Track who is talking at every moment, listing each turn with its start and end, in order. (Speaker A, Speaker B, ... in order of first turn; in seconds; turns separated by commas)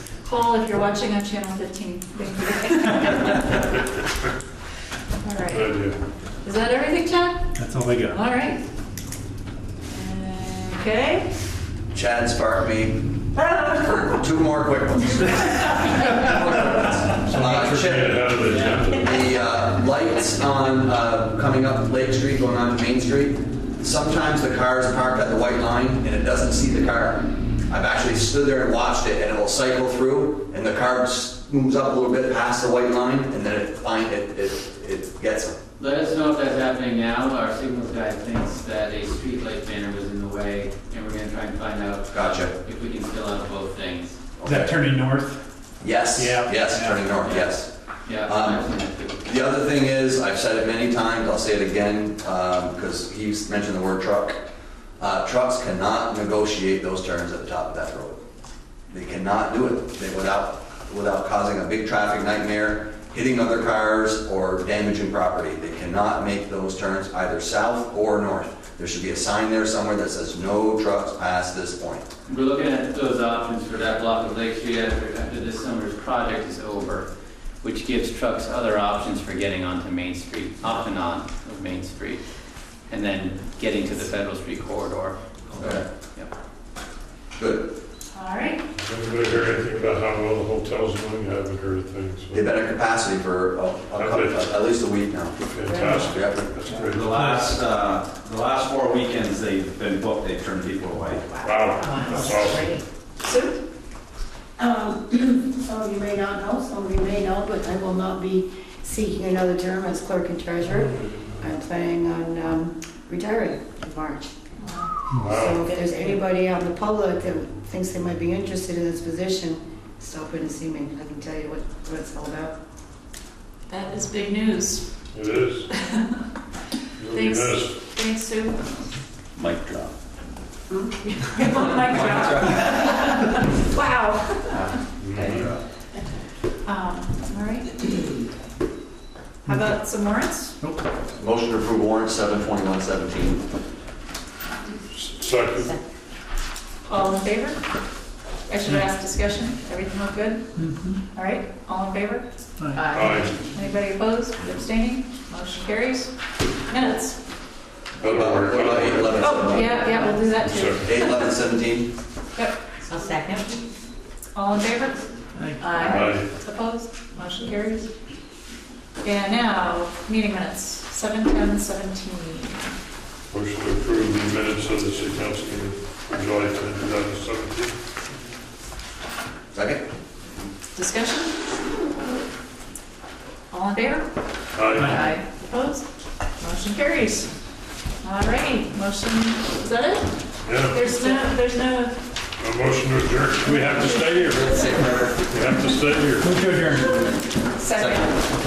Speaker A: 0.2-3.7, Speaker A: 5.2-5.8, Speaker B: 5.5-6.0, Speaker A: 6.4-8.6, Speaker C: 7.6-8.2, Speaker A: 9.9-11.3, Speaker D: 11.9-18.2, Speaker A: 13.4-13.7, Speaker C: 17.3-17.8, Speaker B: 17.4-19.2, Speaker D: 18.9-35.6, Speaker E: 35.8-44.2, Speaker D: 42.1-42.5, Speaker D: 44.4-44.8, Speaker C: 44.5-45.4, Speaker D: 45.8-47.7, Speaker C: 46.1-47.0, Speaker E: 47.2-47.5, Speaker E: 48.1-49.2, Speaker D: 48.2-48.7, Speaker D: 49.2-54.4, Speaker D: 55.0-58.2, Speaker D: 58.9-72.1, Speaker E: 72.3-77.1, Speaker E: 77.6-82.2, Speaker E: 82.9-86.3, Speaker D: 85.6-85.8, Speaker D: 87.4-87.7, Speaker A: 88.1-88.6, Speaker B: 88.8-92.4, Speaker D: 92.3-95.4, Speaker B: 94.0-94.4, Speaker B: 95.4-97.1, Speaker D: 95.9-96.5, Speaker C: 96.7-97.5, Speaker F: 96.8-101.4, Speaker B: 101.4-102.8, Speaker G: 101.7-102.8, Speaker A: 103.2-103.6, Speaker H: 104.6-114.3, Speaker A: 114.6-114.9, Speaker B: 115.1-115.7, Speaker H: 115.2-122.5, Speaker A: 123.7-124.9, Speaker B: 125.1-125.7, Speaker A: 125.8-126.2, Speaker B: 127.0-127.9, Speaker A: 127.1-128.8, Speaker F: 129.4-129.9, Speaker A: 131.1-134.8, Speaker F: 131.7-133.2, Speaker B: 135.0-135.5, Speaker A: 136.7-137.9, Speaker A: 139.4-140.6, Speaker D: 141.2-143.4, Speaker B: 144.9-145.8, Speaker A: 146.9-147.6, Speaker A: 148.5-150.5, Speaker C: 150.6-151.0, Speaker A: 151.1-152.2, Speaker C: 152.6-152.9, Speaker G: 152.8-153.3, Speaker A: 152.9-156.1, Speaker B: 152.9-153.6, Speaker A: 156.7-157.2, Speaker B: 158.0-159.3, Speaker D: 158.0-159.9, Speaker A: 159.2-161.3, Speaker B: 160.3-161.0, Speaker D: 160.8-161.9, Speaker G: 162.9-163.5, Speaker A: 164.3-165.1, Speaker C: 165.3-165.8, Speaker G: 165.6-166.2, Speaker A: 165.6-167.9, Speaker B: 165.9-166.3, Speaker A: 169.0-172.7, Speaker B: 173.3-177.7, Speaker D: 179.5-179.9, Speaker A: 180.8-181.3, Speaker A: 183.5-184.1, Speaker B: 184.6-185.1, Speaker C: 184.7-185.0, Speaker A: 184.8-185.8, Speaker A: 186.4-187.3, Speaker A: 188.0-190.1, Speaker B: 190.4-191.0, Speaker A: 190.6-192.0, Speaker B: 192.4-194.7, Speaker A: 193.4-195.0, Speaker D: 194.4-195.2, Speaker B: 195.3-196.4, Speaker C: 196.2-197.1, Speaker A: 197.6-198.1